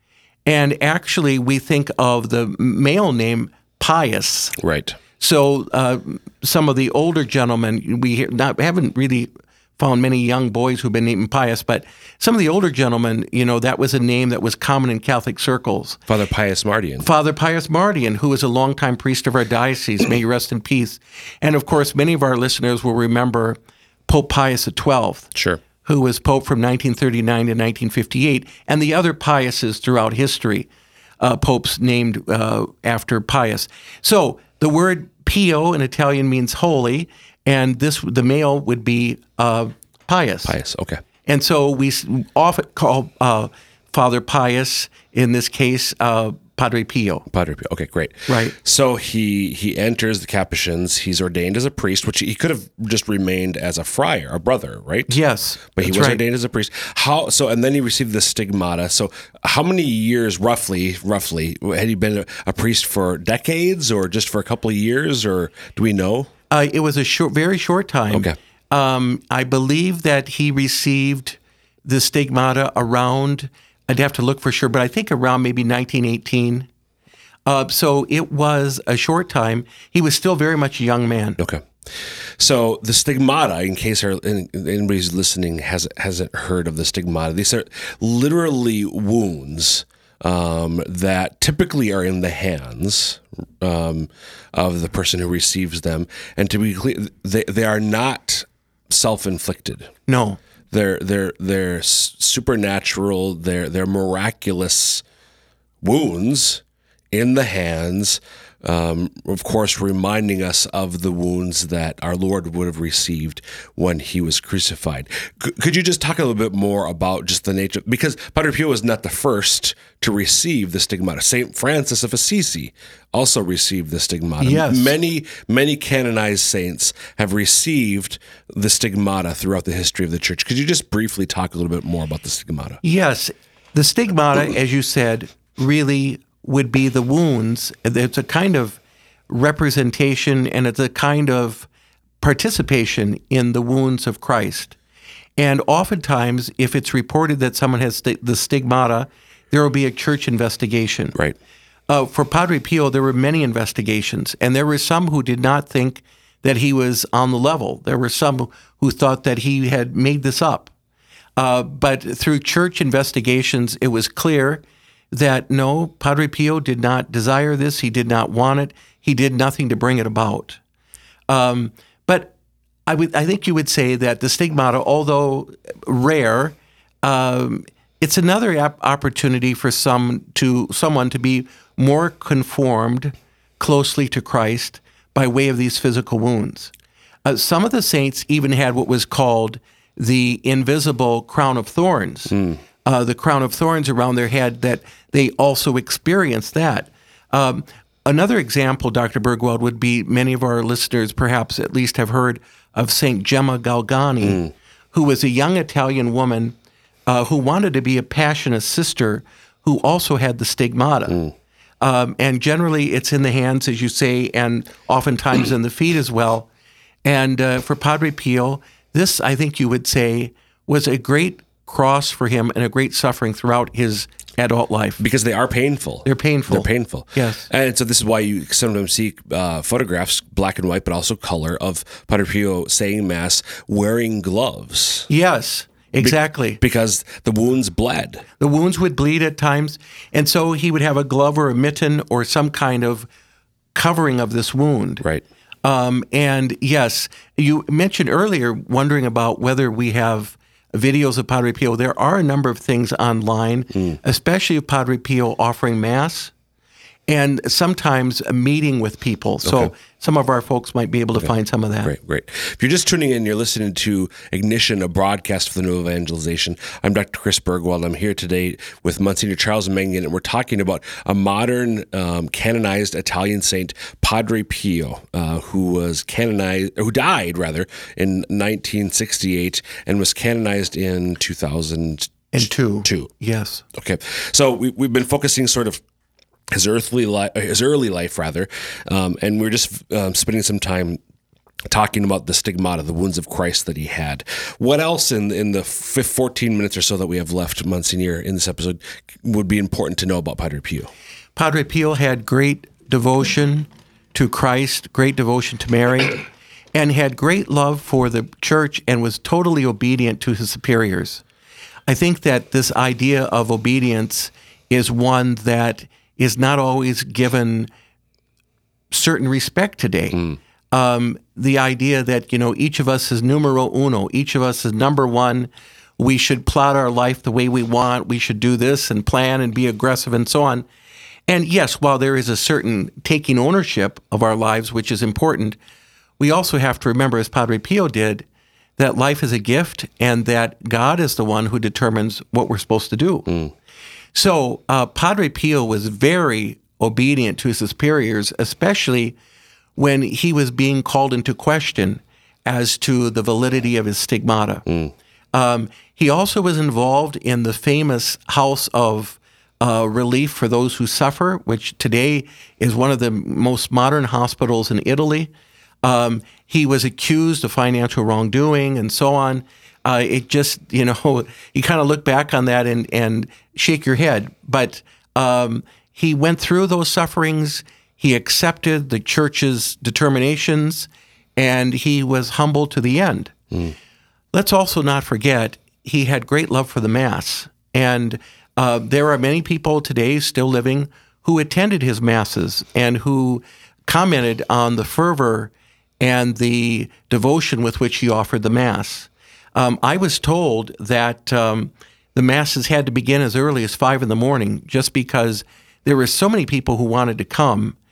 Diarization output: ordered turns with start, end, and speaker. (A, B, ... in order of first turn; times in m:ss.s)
0:00.4-0:04.6 A
0:04.6-0:05.0 B
0:05.2-0:16.0 A
0:16.1-0:17.1 B
0:17.0-0:25.3 A
0:25.3-0:25.6 B
0:25.8-0:30.7 A
0:31.2-0:40.5 A
0:40.4-0:41.0 B
0:41.2-0:47.2 A
0:47.3-0:55.2 B
0:48.3-0:48.5 A
0:55.1-0:56.2 A
0:55.7-1:06.3 B
1:06.5-1:16.7 A
1:17.4-1:21.4 A
1:21.4-1:39.9 B
1:40.1-1:40.4 A
1:40.7-1:45.0 B
1:45.8-2:12.8 B
2:04.4-2:04.9 A
2:12.8-2:21.7 A
2:22.2-2:24.8 A
2:25.4-2:31.2 A
2:31.9-2:40.7 A
2:41.4-2:50.6 A
2:51.3-2:52.3 A
2:52.8-3:06.7 A
3:07.2-3:26.5 A
3:12.3-3:12.6 B
3:24.2-3:24.5 B
3:27.1-3:31.2 A
3:31.8-3:36.5 A
3:37.0-3:45.0 A
3:45.0-3:55.1 B
3:46.0-3:47.4 A
3:55.1-3:56.6 A
3:56.0-3:58.2 B
3:58.4-4:03.1 A
4:03.7-4:05.0 A
4:05.6-4:16.3 A
4:13.7-4:14.0 B
4:17.1-4:21.9 A
4:19.4-4:19.7 B
4:21.8-4:42.3 B
4:42.3-4:43.6 A
4:42.8-4:43.1 B
4:43.7-4:45.8 B
4:46.5-4:51.0 B
4:51.7-5:00.9 B
5:01.4-5:11.2 A
5:11.9-5:17.7 A
5:18.9-5:30.6 A
5:31.3-5:35.6 A
5:36.2-5:38.2 A
5:38.8-5:43.3 A
5:43.3-5:43.5 B
5:44.1-5:49.2 A
5:49.8-5:54.6 A
5:54.6-5:54.9 B
5:55.3-6:05.3 A
6:05.8-6:23.4 A
6:24.3-6:47.8 A